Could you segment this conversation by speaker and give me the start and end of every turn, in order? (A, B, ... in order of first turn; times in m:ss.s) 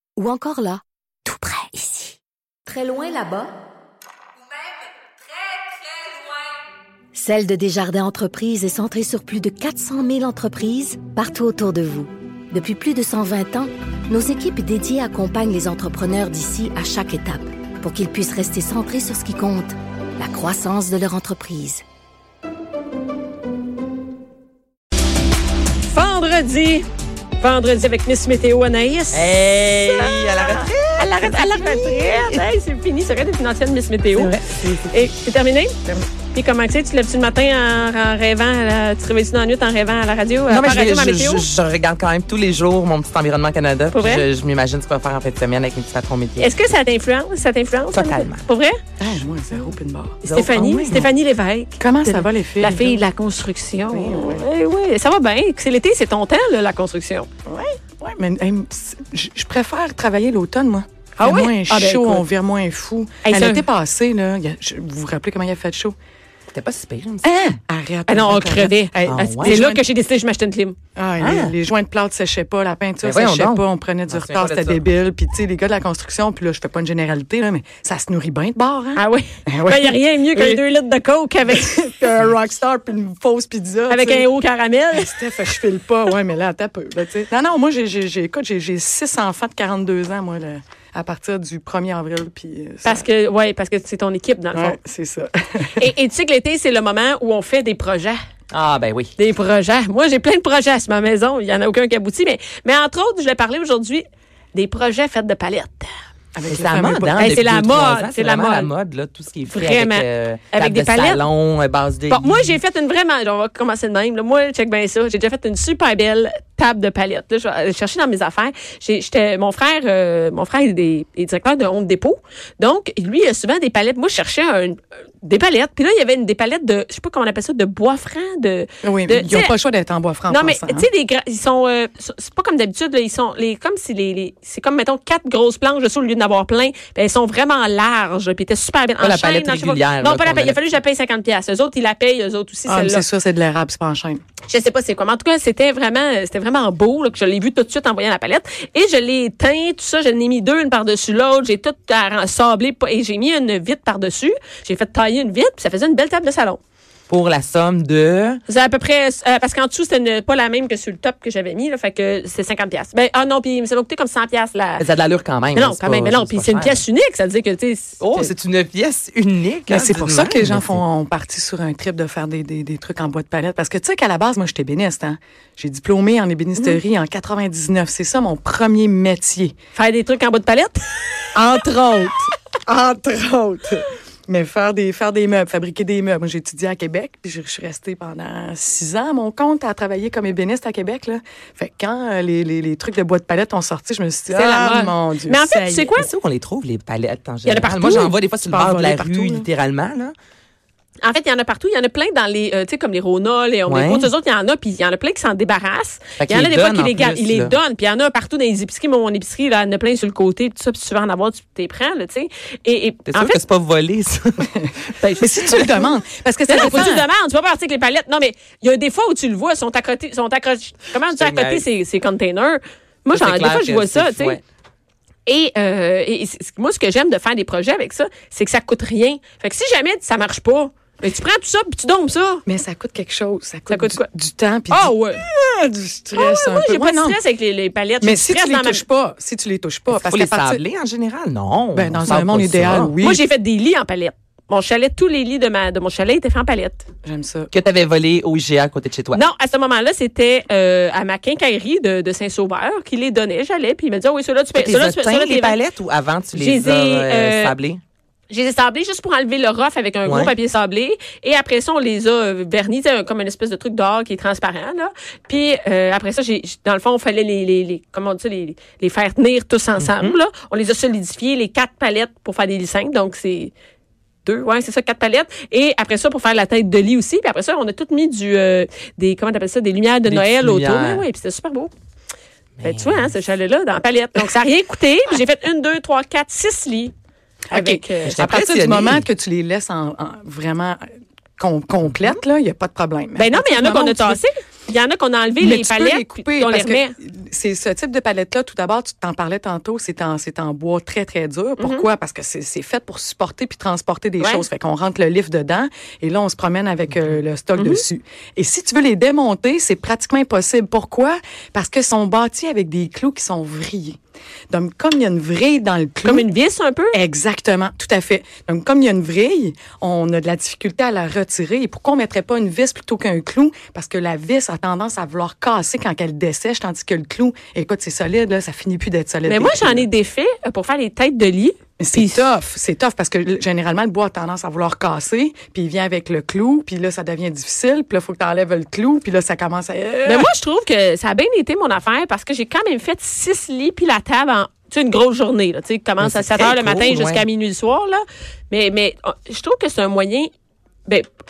0:00.2-0:02.2 A
0:02.7-0:03.5 A
0:25.8-0:26.9 B
0:27.4-0:41.5 B
0:29.1-0:32.5 C
0:34.1-0:35.0 C
0:40.5-0:46.5 C
0:43.9-0:44.3 B
0:46.4-0:48.8 B
0:47.9-0:48.5 C
0:49.0-0:51.1 D
0:50.2-0:57.3 B
0:50.3-0:51.1 C
0:51.8-0:53.0 D
0:53.9-0:54.5 D
0:57.5-1:06.0 D
1:01.2-1:02.2 B
1:03.2-1:03.6 B
1:06.5-1:07.3 C
1:07.2-1:09.8 D
1:08.1-1:10.8 B
1:09.1-1:09.6 C
1:11.0-1:20.6 D
1:11.2-1:11.6 C
1:13.0-1:14.8 C
1:19.0-1:21.8 B
1:21.5-1:24.3 D
1:23.9-1:25.3 B
1:24.9-1:33.1 D
1:32.8-1:34.8 B
1:34.5-1:35.9 D
1:35.8-1:38.2 B
1:38.5-1:39.1 C
1:39.2-1:45.9 B
1:46.4-1:47.4 D
1:46.5-1:52.6 C
1:47.2-1:48.7 B
1:49.5-1:51.2 B
1:52.1-2:09.6 B
2:08.8-2:10.9 D
2:10.3-2:23.0 B
2:19.0-2:20.6 C
2:22.7-2:24.2 D
2:24.5-2:36.6 B
2:37.1-2:38.4 C
2:38.5-2:44.9 B
2:44.8-2:46.8 C
2:45.5-2:48.3 B
2:48.0-2:50.8 C
2:49.7-2:59.5 D
2:59.8-3:00.8 B
3:01.3-3:15.9 D
3:14.3-3:16.1 B
3:16.0-3:20.1 C
3:17.4-3:18.2 B
3:17.8-3:19.5 D
3:21.0-3:33.4 B
3:23.7-3:24.1 C
3:26.2-3:27.6 C
3:33.1-3:35.7 C
3:34.6-3:37.1 D
3:35.0-3:35.6 B
3:36.5-3:44.4 B
3:41.1-3:41.7 C
3:43.1-3:44.4 C
3:45.3-3:52.4 B
3:52.5-3:57.2 D
3:53.7-3:54.1 B
3:54.7-3:55.2 B
3:56.2-3:58.8 B
3:58.0-4:00.6 D
3:59.9-4:03.0 C
4:01.7-4:03.2 D
4:03.0-4:06.9 B
4:07.0-4:07.5 D
4:07.5-4:09.2 C
4:09.1-4:15.6 B
4:14.5-4:17.8 C
4:16.3-4:17.6 B
4:18.3-4:33.5 B
4:20.0-4:20.3 C
4:29.8-4:30.2 C
4:34.2-4:41.7 B
4:40.0-4:41.0 C
4:42.6-4:43.1 C
4:42.6-4:46.9 B
4:47.5-4:50.9 D
4:47.5-4:48.3 B
4:48.1-4:49.1 C
4:51.4-4:54.2 D
4:53.2-4:56.9 B
4:55.4-5:14.0 D
5:01.6-5:01.9 B
5:04.2-5:04.5 B
5:07.6-5:07.8 B
5:14.5-5:16.3 D
5:16.0-5:17.0 B
5:16.9-5:29.9 D
5:29.3-5:32.3 B
5:31.8-5:40.3 D
5:40.0-5:50.3 B
5:46.0-5:47.3 C